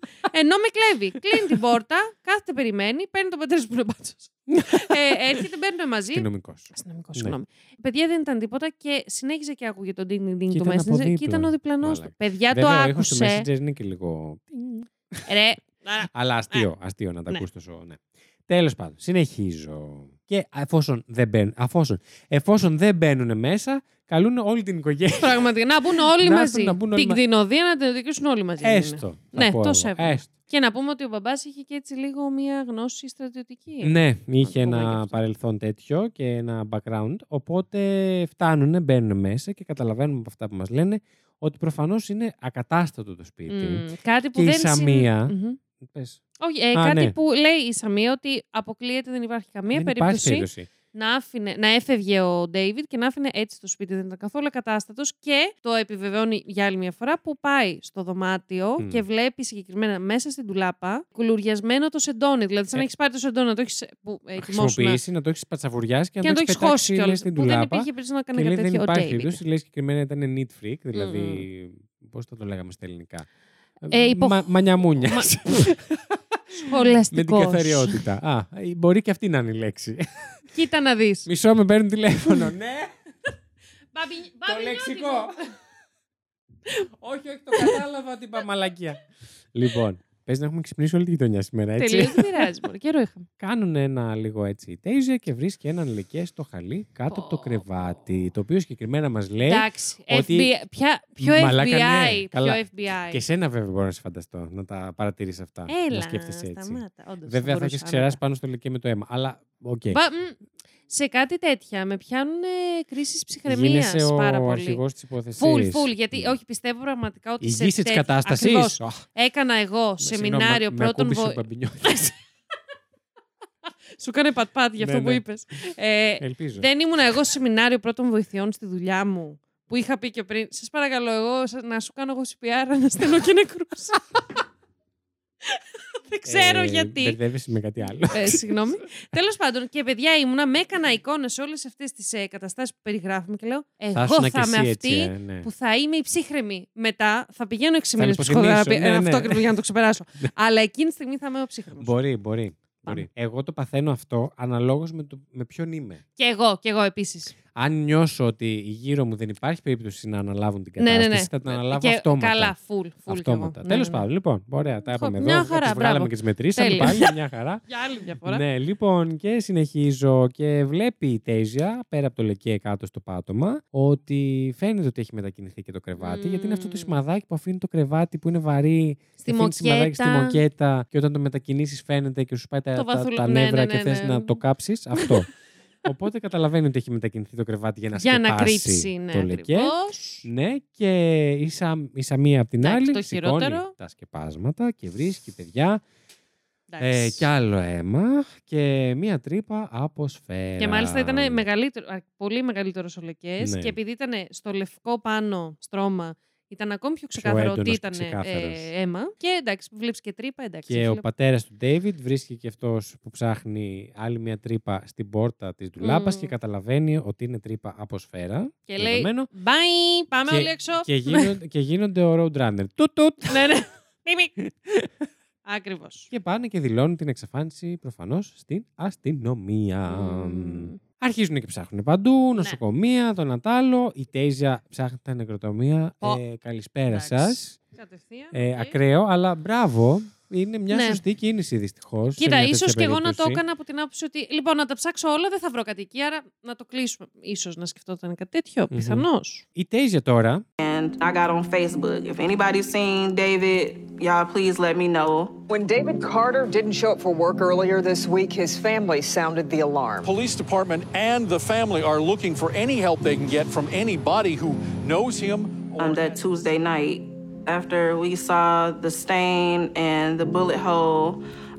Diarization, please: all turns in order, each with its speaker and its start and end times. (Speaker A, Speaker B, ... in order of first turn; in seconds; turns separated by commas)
Speaker A: 0.2-13.5, Speaker B: 4.5-5.4, Speaker B: 6.1-7.4, Speaker B: 10.5-15.3, Speaker A: 15.3-16.7, Speaker B: 16.1-25.4, Speaker A: 25.2-35.2, Speaker B: 26.2-27.2, Speaker B: 28.6-30.3, Speaker B: 33.8-46.2, Speaker A: 43.5-45.6, Speaker A: 46.4-65.0, Speaker B: 46.7-47.1, Speaker B: 49.7-50.7, Speaker B: 64.4-73.3, Speaker A: 66.2-69.4, Speaker A: 70.9-71.4, Speaker B: 73.8-80.0, Speaker A: 73.9-75.7, Speaker A: 76.6-78.0, Speaker A: 80.5-81.3, Speaker B: 81.2-82.9, Speaker A: 83.9-85.4, Speaker B: 84.4-85.3, Speaker B: 87.0-89.0, Speaker B: 89.5-92.4, Speaker A: 91.8-93.3, Speaker B: 93.4-100.5, Speaker A: 97.1-98.0, Speaker A: 99.4-103.2, Speaker B: 101.2-102.6, Speaker B: 103.1-110.0, Speaker A: 105.7-108.2, Speaker A: 109.9-110.4, Speaker A: 110.9-114.8, Speaker B: 113.5-116.3, Speaker A: 115.4-122.1, Speaker B: 117.4-119.0, Speaker B: 120.0-122.1, Speaker A: 124.0-134.0, Speaker B: 124.8-125.2, Speaker B: 126.2-126.7, Speaker A: 135.5-137.2, Speaker B: 136.2-138.5, Speaker A: 138.1-151.9, Speaker B: 143.9-145.5, Speaker B: 148.0-149.4, Speaker B: 151.8-156.0, Speaker A: 156.2-157.3, Speaker B: 157.5-162.5, Speaker A: 160.8-164.1, Speaker B: 163.1-167.6, Speaker A: 164.8-167.1, Speaker A: 167.7-168.4, Speaker B: 168.2-185.3, Speaker A: 176.0-176.9, Speaker A: 179.2-180.4, Speaker A: 182.7-184.4, Speaker A: 184.9-185.2, Speaker B: 185.8-189.7, Speaker A: 188.0-190.2, Speaker B: 190.2-195.8, Speaker A: 192.6-193.7, Speaker A: 196.7-197.2, Speaker B: 196.8-201.4, Speaker A: 200.6-211.0, Speaker B: 203.4-203.7, Speaker B: 207.2-208.7, Speaker B: 210.7-219.3, Speaker A: 215.8-216.3, Speaker A: 218.7-221.3, Speaker B: 220.3-223.5, Speaker A: 223.3-224.3, Speaker A: 225.4-226.1, Speaker B: 226.1-237.6, Speaker A: 229.9-230.8, Speaker A: 236.9-238.8, Speaker B: 238.3-243.4, Speaker A: 240.7-241.0, Speaker A: 242.2-249.4, Speaker B: 248.7-250.4, Speaker C: 250.6-255.4, Speaker D: 255.5-260.1, Speaker E: 260.0-266.1, Speaker C: 265.8-271.2, Speaker D: 265.9-266.1